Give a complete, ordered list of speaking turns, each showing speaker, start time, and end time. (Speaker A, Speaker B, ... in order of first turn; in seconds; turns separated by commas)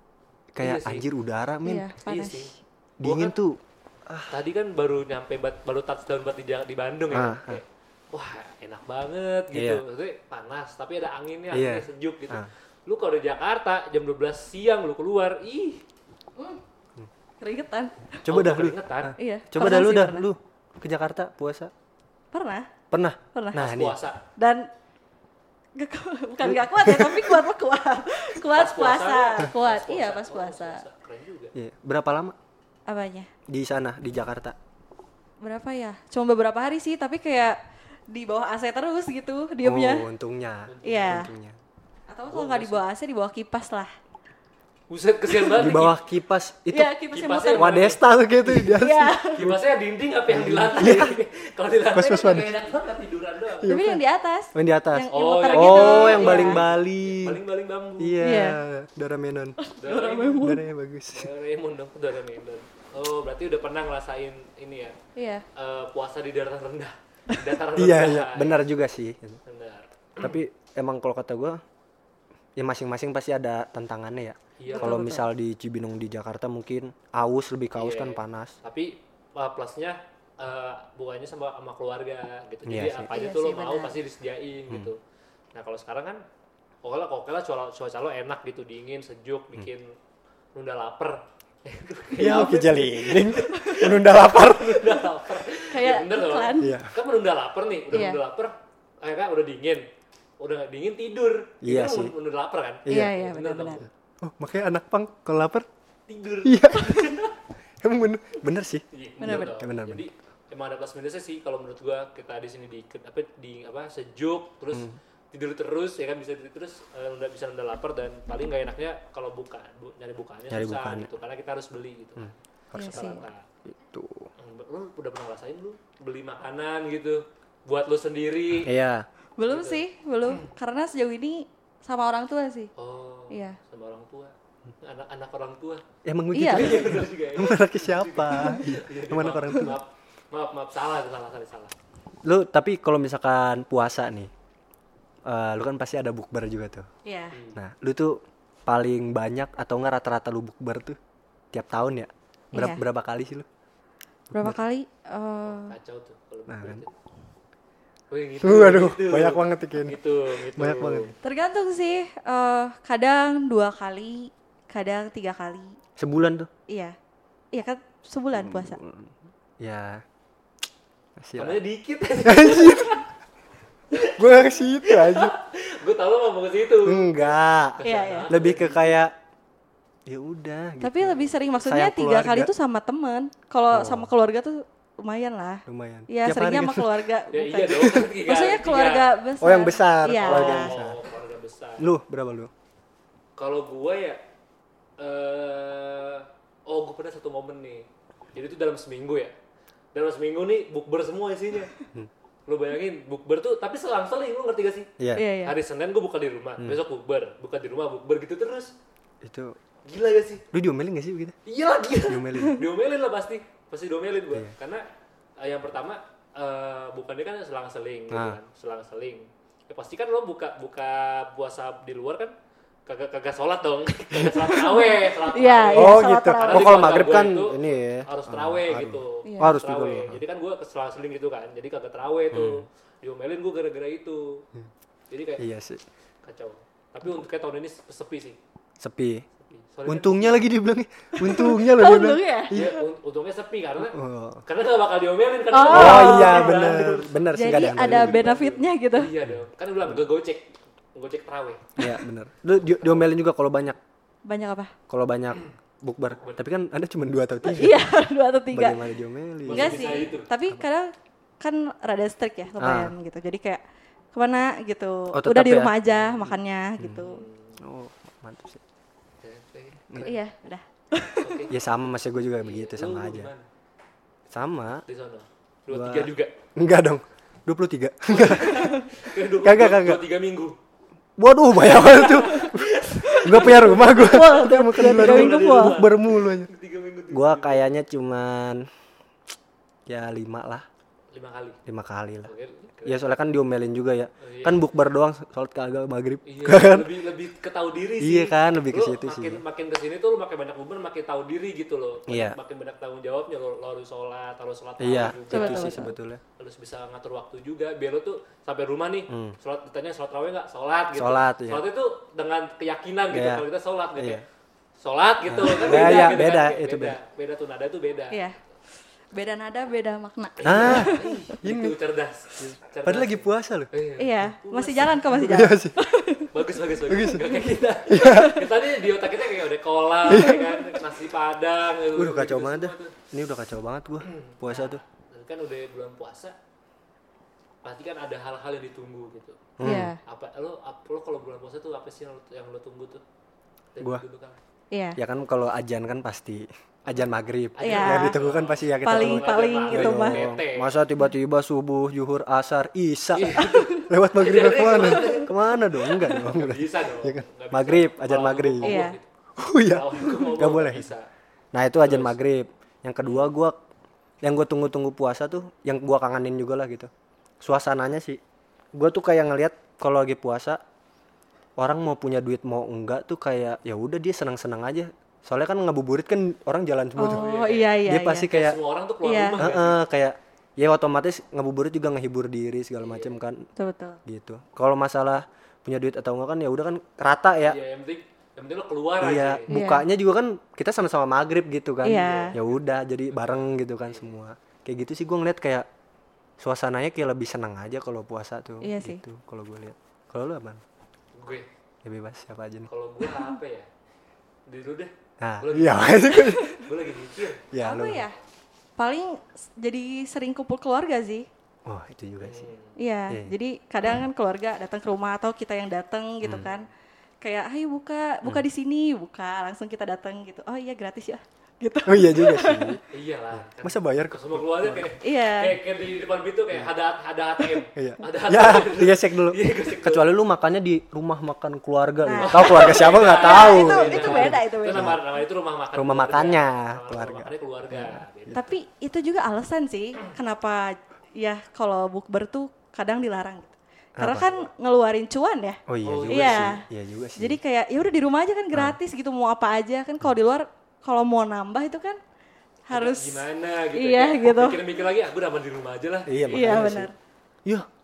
Speaker A: 0.5-1.9, Speaker B: 0.6-1.1, Speaker C: 1.6-2.5, Speaker B: 2.0-3.4, Speaker A: 3.0-4.3, Speaker B: 4.3-15.8, Speaker A: 7.1-7.6, Speaker A: 9.5-9.8, Speaker A: 11.5-12.5, Speaker C: 17.4-18.2, Speaker A: 18.2-21.7, Speaker B: 18.3-19.1, Speaker C: 19.2-20.2, Speaker C: 22.3-22.7, Speaker A: 22.9-24.0, Speaker C: 23.3-23.6, Speaker B: 23.5-24.2, Speaker C: 24.4-24.7, Speaker C: 25.7-30.8, Speaker A: 26.4-27.4, Speaker B: 28.5-31.5, Speaker A: 31.5-32.4, Speaker C: 32.9-33.3, Speaker A: 33.5-34.6, Speaker C: 35.4-40.0, Speaker A: 39.6-41.6, Speaker B: 40.7-41.3, Speaker C: 40.8-41.3, Speaker C: 42.1-43.9, Speaker B: 42.3-42.8, Speaker B: 44.9-46.0, Speaker A: 45.5-46.9, Speaker C: 46.7-47.9, Speaker B: 47.1-48.0, Speaker A: 47.5-49.6, Speaker C: 48.4-49.5, Speaker B: 49.3-53.7, Speaker A: 50.3-51.1, Speaker A: 51.9-52.5, Speaker A: 53.6-54.0, Speaker C: 53.7-56.6, Speaker A: 54.5-57.4, Speaker B: 55.1-58.2, Speaker A: 58.0-59.6, Speaker C: 58.2-58.6, Speaker C: 59.6-60.6, Speaker B: 59.8-60.4, Speaker A: 60.3-61.3, Speaker B: 61.1-65.0, Speaker C: 65.2-65.4, Speaker B: 65.5-68.6, Speaker A: 67.7-69.4, Speaker B: 69.5-70.4, Speaker A: 70.2-71.6, Speaker A: 72.5-78.5, Speaker B: 74.6-75.1, Speaker C: 74.7-75.2, Speaker B: 77.7-85.0, Speaker A: 82.7-83.1, Speaker C: 83.1-83.9, Speaker B: 85.5-86.2, Speaker B: 86.8-89.9, Speaker B: 90.5-99.9, Speaker A: 92.2-95.0, Speaker C: 92.2-92.6, Speaker C: 93.6-93.9, Speaker C: 95.5-96.7, Speaker A: 96.6-96.9, Speaker C: 97.9-98.2, Speaker B: 100.4-103.9, Speaker A: 101.6-102.1, Speaker A: 102.8-103.2, Speaker C: 102.9-103.8, Speaker A: 104.2-105.7, Speaker B: 106.1-107.3, Speaker A: 106.4-107.2, Speaker A: 107.8-110.0, Speaker B: 108.9-123.5, Speaker C: 109.2-109.5, Speaker A: 120.5-121.1, Speaker A: 122.2-124.3, Speaker C: 122.7-123.2, Speaker B: 124.4-128.7, Speaker A: 128.6-129.1, Speaker C: 129.4-132.7, Speaker B: 129.5-129.8, Speaker B: 132.8-135.8, Speaker C: 133.3-133.6, Speaker A: 136.0-139.8, Speaker C: 136.3-137.0, Speaker B: 136.4-141.7, Speaker A: 142.2-144.3, Speaker A: 145.2-146.9, Speaker C: 147.0-147.3, Speaker B: 147.3-147.6, Speaker A: 147.5-151.0, Speaker A: 151.5-153.5, Speaker C: 152.5-152.8, Speaker A: 154.3-154.6, Speaker C: 154.3-155.7, Speaker B: 155.4-156.9, Speaker A: 156.5-156.8, Speaker B: 158.1-161.2, Speaker A: 158.4-160.0, Speaker A: 160.5-161.1, Speaker C: 161.2-165.8, Speaker A: 166.0-166.5, Speaker C: 166.7-166.9, Speaker C: 167.5-168.8, Speaker A: 168.3-170.0, Speaker A: 171.2-171.6, Speaker B: 171.3-173.1, Speaker A: 172.2-173.0, Speaker B: 173.9-179.0, Speaker A: 174.1-175.3, Speaker A: 176.8-179.1, Speaker C: 177.8-178.3, Speaker A: 180.1-182.5, Speaker C: 180.8-190.7, Speaker A: 183.7-184.1, Speaker A: 185.7-187.1, Speaker B: 187.3-189.1, Speaker A: 189.4-191.0, Speaker B: 190.1-191.9, Speaker A: 191.8-192.5, Speaker B: 193.4-194.2, Speaker B: 195.0-199.3, Speaker B: 199.9-201.7, Speaker B: 202.5-204.9, Speaker A: 205.0-205.2, Speaker C: 205.1-205.6, Speaker B: 205.4-208.7, Speaker A: 209.2-209.6, Speaker B: 209.8-210.4, Speaker A: 210.5-211.3, Speaker B: 211.4-214.8, Speaker A: 212.1-212.6, Speaker B: 215.4-222.3, Speaker A: 218.1-218.4, Speaker B: 222.8-234.4, Speaker C: 224.5-227.1, Speaker A: 225.7-230.2, Speaker C: 229.2-229.6, Speaker A: 232.3-232.6, Speaker B: 235.1-235.4, Speaker A: 235.4-235.8, Speaker B: 236.2-238.4, Speaker A: 238.8-239.2, Speaker B: 239.4-240.4, Speaker A: 239.9-242.7, Speaker C: 241.2-242.7, Speaker B: 242.5-251.8, Speaker A: 243.8-244.4, Speaker C: 245.5-249.1, Speaker A: 245.7-248.2, Speaker A: 249.2-250.0, Speaker A: 251.8-253.8, Speaker C: 254.2-254.7, Speaker A: 254.9-257.8, Speaker B: 256.1-256.4, Speaker C: 257.5-258.8, Speaker A: 258.5-260.0, Speaker B: 259.4-260.3, Speaker C: 259.5-263.6, Speaker A: 262.6-262.9, Speaker C: 264.1-267.2, Speaker A: 265.1-265.7, Speaker B: 265.9-266.3, Speaker A: 266.8-267.1, Speaker B: 267.0-267.6, Speaker A: 267.6-268.6, Speaker B: 269.2-270.2, Speaker C: 270.0-271.4, Speaker B: 271.2-271.5, Speaker A: 271.5-273.3, Speaker B: 272.4-273.4, Speaker A: 274.3-274.8, Speaker B: 274.9-276.3, Speaker A: 275.7-278.9, Speaker B: 278.1-280.6, Speaker C: 278.5-278.8, Speaker A: 279.4-280.0, Speaker A: 281.2-286.5, Speaker B: 281.6-287.7, Speaker C: 282.2-282.5, Speaker C: 283.0-285.9, Speaker A: 287.1-288.7, Speaker A: 289.9-290.6, Speaker B: 291.1-291.6, Speaker A: 291.6-292.3, Speaker B: 292.2-293.1, Speaker A: 292.8-296.9, Speaker B: 294.2-294.6, Speaker B: 296.2-305.9, Speaker A: 298.0-299.4, Speaker A: 302.1-302.4, Speaker A: 304.8-306.2, Speaker C: 305.3-305.9, Speaker B: 306.4-314.2, Speaker A: 309.1-309.4, Speaker A: 310.9-311.6, Speaker A: 313.1-314.2, Speaker B: 314.8-318.2, Speaker A: 315.3-317.0, Speaker C: 315.7-316.1, Speaker C: 318.1-318.4, Speaker C: 319.1-321.2, Speaker B: 320.4-325.4, Speaker A: 320.4-321.8, Speaker A: 322.4-323.7, Speaker C: 324.0-326.3, Speaker A: 325.2-325.7, Speaker B: 326.3-332.9, Speaker A: 326.9-328.4, Speaker C: 328.0-328.3, Speaker A: 330.1-330.5, Speaker A: 331.9-334.8, Speaker B: 334.0-336.3, Speaker B: 337.6-343.0, Speaker A: 339.6-339.9, Speaker C: 339.6-340.0, Speaker B: 343.7-344.4, Speaker C: 344.7-345.0, Speaker A: 344.9-358.8, Speaker B: 347.6-350.7, Speaker C: 347.6-348.2, Speaker C: 348.8-350.3, Speaker B: 353.1-355.4, Speaker B: 355.9-359.0, Speaker C: 358.6-359.0, Speaker A: 359.4-360.9, Speaker B: 359.6-361.1, Speaker A: 361.5-363.6, Speaker B: 361.8-362.2, Speaker A: 364.2-366.9, Speaker A: 367.4-368.2, Speaker A: 368.7-370.6, Speaker A: 371.6-377.3, Speaker C: 377.0-378.3, Speaker B: 377.0-379.8, Speaker A: 377.8-378.6, Speaker C: 379.0-379.5, Speaker A: 379.4-383.5, Speaker B: 382.8-383.2, Speaker C: 383.6-384.0, Speaker A: 384.1-387.6, Speaker B: 387.4-389.5, Speaker A: 389.0-395.7, Speaker C: 389.5-389.9, Speaker C: 391.8-392.4, Speaker B: 391.9-394.1, Speaker A: 396.4-400.6, Speaker C: 398.6-399.0, Speaker B: 401.1-401.5, Speaker A: 401.8-402.7, Speaker B: 402.7-403.7, Speaker B: 404.5-407.4, Speaker A: 405.2-406.6, Speaker A: 407.5-408.1, Speaker C: 407.6-408.2, Speaker C: 408.8-411.3, Speaker A: 411.6-412.5, Speaker B: 412.2-412.8, Speaker C: 412.8-416.7, Speaker A: 416.2-416.5, Speaker C: 417.2-422.8, Speaker A: 421.9-422.8, Speaker B: 422.9-430.1, Speaker A: 423.4-424.9, Speaker C: 425.0-425.6, Speaker A: 427.7-435.0, Speaker C: 432.0-435.0, Speaker B: 432.1-438.5, Speaker A: 435.7-438.4, Speaker C: 438.3-446.6, Speaker A: 444.0-444.3, Speaker A: 445.7-447.4, Speaker B: 445.8-446.6, Speaker C: 447.2-452.0, Speaker A: 448.5-448.8, Speaker C: 452.7-454.6, Speaker B: 452.7-456.7, Speaker A: 456.1-456.9, Speaker C: 456.3-456.9